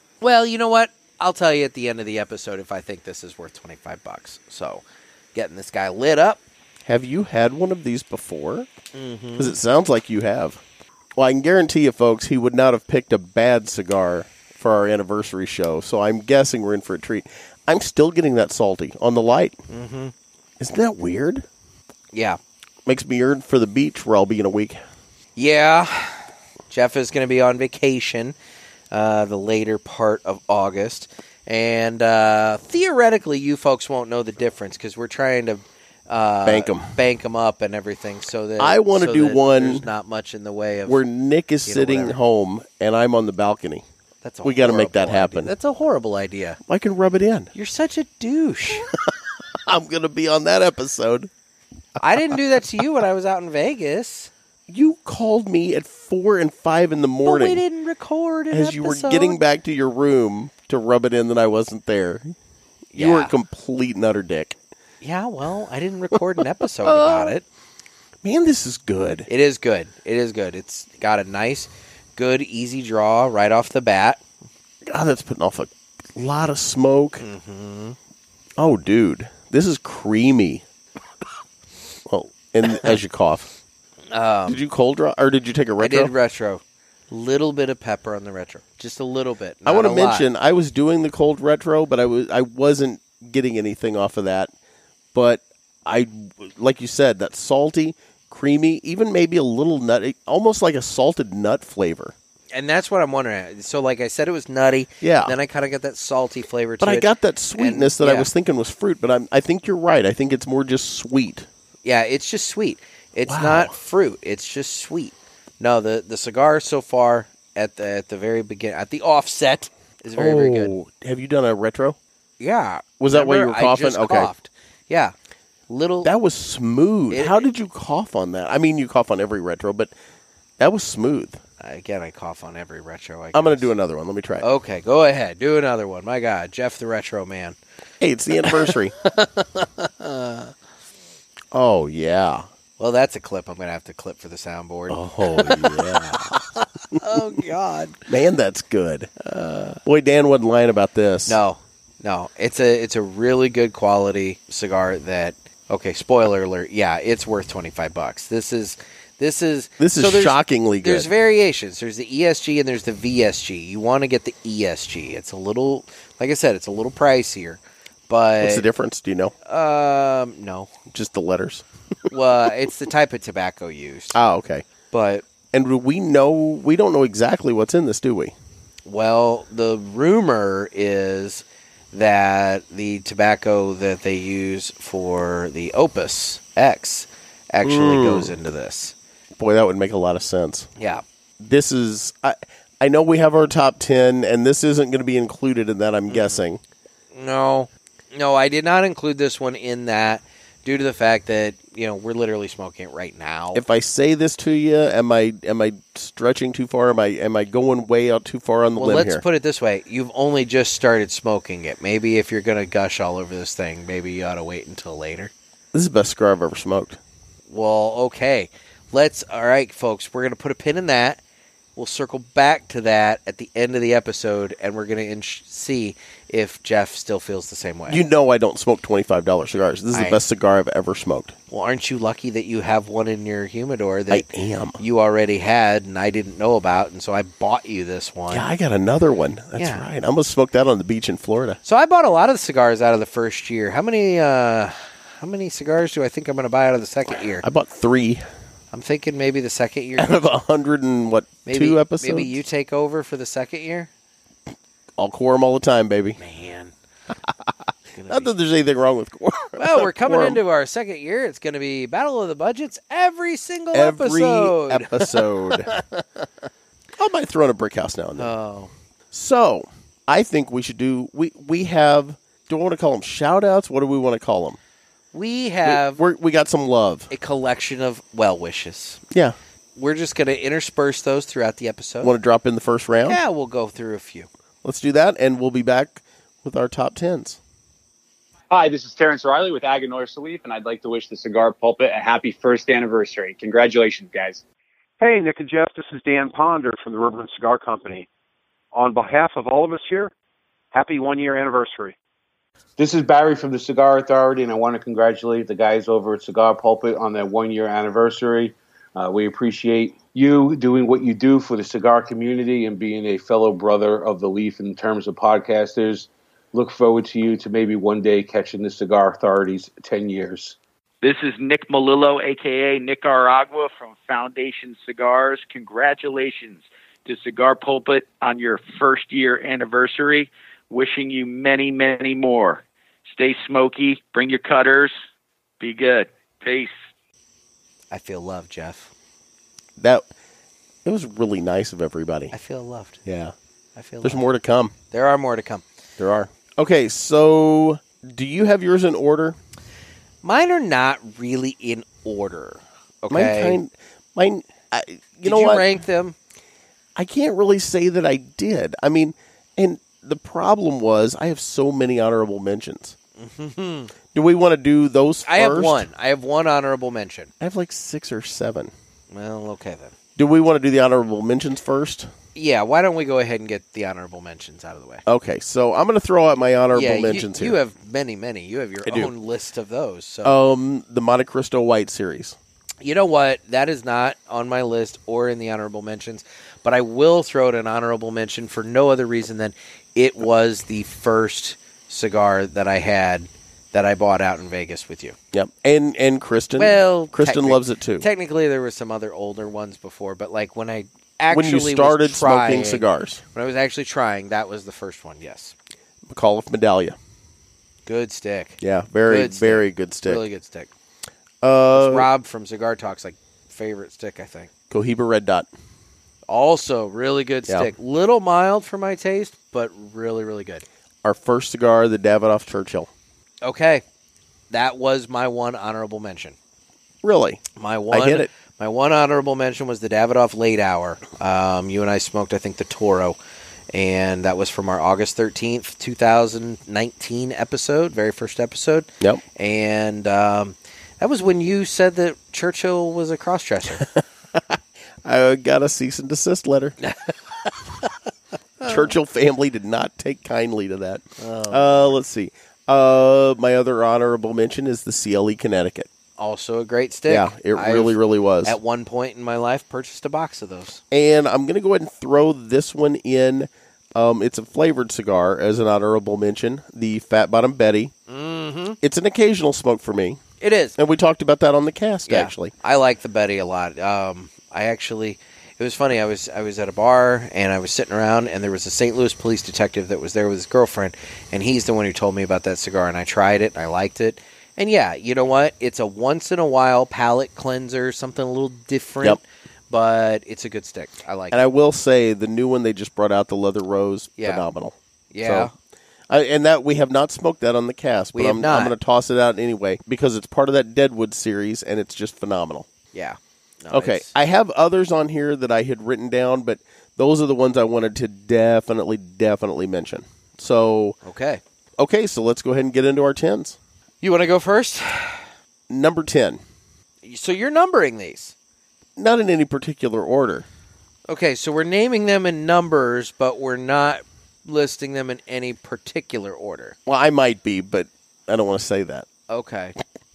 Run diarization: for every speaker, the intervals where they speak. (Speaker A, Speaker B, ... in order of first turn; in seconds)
Speaker A: 0.2-4.8, 5.3-6.4, 8.9-9.5, 19.7-20.1, 22.1-22.4, 25.4-28.3, 28.9-41.0, 41.6-42.2, 44.2-46.6, 47.5-48.9, 52.0-54.3, 57.2-59.4, 62.9-63.3, 65.0-67.4, 69.3-74.2, 77.2-78.0, 82.7-83.0, 84.1-84.6, 85.8-90.3, 102.5-108.3, 111.8-120.7, 122.4-125.1, 125.7-126.1, 127.1-127.4, 131.6-133.7, 134.4-137.6, 138.4-140.5, 142.8-148.0, 151.3-168.6, 169.4-170.7, 172.1-174.2, 174.9-175.2, 178.8-188.9, 190.8-191.0, 196.1-196.4, 197.1-203.6, 208.8-215.3, 217.5-221.2, 221.8-228.0, 229.9-230.2, 231.5-234.2, 234.8-238.4, 239.6-239.8, 241.6-247.4, 248.7-250.2, 251.4-253.9, 256.2-256.7, 257.9-258.3, 259.6-266.0, 268.2-268.7, 275.1-276.0, 277.1-279.0, 279.8-282.1, 283.1-284.3, 337.9-338.9, 342.3-343.0, 343.8-344.2, 344.9-345.6, 350.2-353.6, 355.2-356.1, 363.2-363.9, 365.2-367.3, 369.1-369.9, 372.3-375.0, 376.7-380.4, 382.8-395.2, 396.6-405.5, 407.9-410.7, 411.7-414.5, 416.3-420.6, 423.4-423.8, 424.5-426.4, 427.6-433.2, 433.7-443.8, 446.8-447.1, 448.6-448.9, 451.2-452.0, 456.2-460.8, 468.1-468.8, 470.4-470.8, 472.1-491.4, 494.2-494.4, 495.1-495.5, 498.1-498.7, 502.9-504.1, 511.0-511.4, 514.0-515.3, 517.0-518.3, 521.1-526.8, 529.3-529.8
Speaker B: 6.8-8.7, 9.4-10.6, 11.2-19.6, 20.6-21.4, 22.9-24.8, 36.4-36.9, 38.6-39.9, 40.9-43.8, 44.4-45.5, 46.7-47.5, 49.6-51.3, 54.7-57.6, 58.5-62.3, 62.9-64.6, 66.8-67.3, 68.2-69.3, 74.8-77.2, 78.6-80.6, 82.0-83.5, 84.5-86.1, 89.6-94.5, 95.1-102.1, 105.0-105.3, 106.8-111.5, 113.3-113.7, 120.2-122.0, 123.0-124.3, 126.0-129.9, 130.6-131.4, 133.3-134.4, 138.0-138.9, 141.5-142.5, 144.9-146.4, 148.1-151.4, 159.8-161.1, 168.4-169.3, 170.9-171.6, 174.1-174.7, 175.5-178.3, 187.6-188.3, 189.3-190.7, 191.4-196.6, 203.5-209.2, 215.7-217.0, 227.9-231.3, 234.1-234.8, 238.3-241.6, 247.4-248.2, 250.0-252.4, 255.0-256.2, 258.1-260.4, 263.7-265.7, 267.0-268.3, 269.1-274.6, 275.6-277.1, 279.1-279.4, 282.0-283.2, 284.6-287.4, 339.8-340.0, 340.8-342.3, 343.0-343.3, 344.0-344.7, 346.0-349.4, 353.1-355.7, 356.9-362.9, 364.1-365.9, 367.4-368.7, 370.1-372.1, 375.1-377.6, 378.8-379.1, 380.2-382.4, 395.3-398.1, 401.3-403.2, 406.1-406.9, 408.6-410.2, 411.4-412.1, 414.7-415.5, 421.0-422.9, 427.0-428.3, 443.8-446.8, 448.6-455.9, 457.1-458.6, 460.9-467.9, 468.8-470.2, 470.8-472.5, 491.3-495.5, 496.1-502.7, 503.7-511.0, 511.8-513.6, 515.7-516.4, 519.0-520.5, 526.9-529.1
Speaker C: 288.5-294.4
Speaker D: 295.0-298.1, 298.7-300.1, 300.7-301.9
Speaker E: 302.8-320.6
Speaker F: 321.0-334.9, 335.6-336.7